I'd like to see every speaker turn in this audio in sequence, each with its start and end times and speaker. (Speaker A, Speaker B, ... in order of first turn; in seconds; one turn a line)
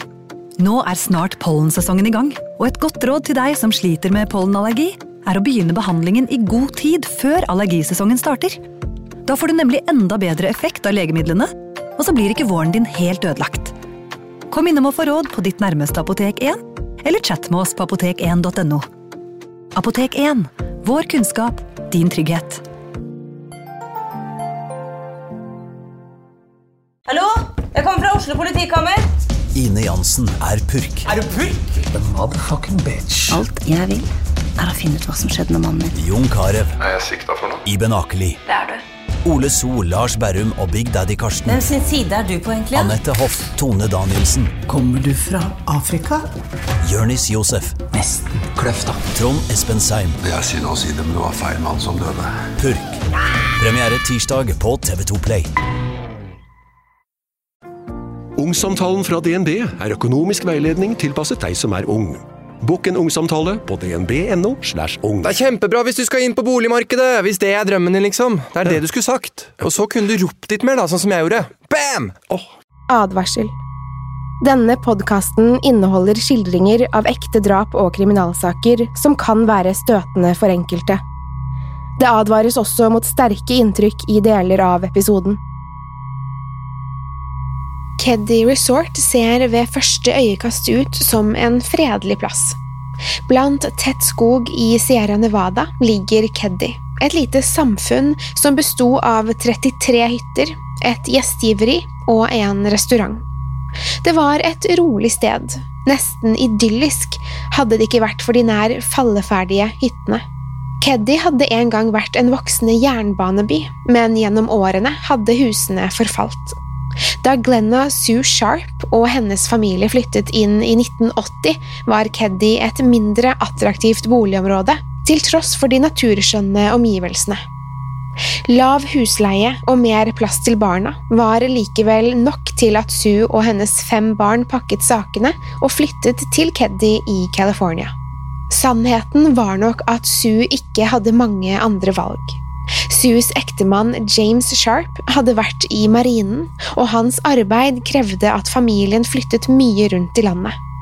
Speaker A: 0.6-8.6
Speaker A: 9.2-13.7
Speaker A: 14.5-18.9
Speaker A: 19.8-22.6
Speaker B: 27.1-29.0
Speaker C: 29.6-31.1
Speaker D: 31.4-33.4
Speaker E: 33.3-34.1
Speaker E: 34.6-36.0
Speaker C: 36.0-36.8
Speaker F: 36.8-37.6
Speaker C: 37.6-38.4
Speaker C: 39.2-41.6
Speaker B: 41.5-43.0
Speaker C: 42.7-44.5
Speaker D: 44.7-46.3
Speaker C: 46.8-47.8
Speaker D: 47.9-49.0
Speaker C: 49.1-50.2
Speaker F: 50.2-52.3
Speaker C: 52.6-53.0
Speaker C: 53.6-55.5
Speaker G: 58.4-65.3
Speaker H: 65.2-72.2
Speaker I: 72.9-73.5
Speaker I: 74.4-81.0
Speaker I: 82.0-85.4
Speaker I: 88.0-92.6
Speaker I: 93.3-103.2
Speaker I: 104.0-110.2
Speaker I: 110.8-116.6
Speaker I: 117.2-127.4
Speaker I: 128.5-137.9
Speaker I: 138.5-150.6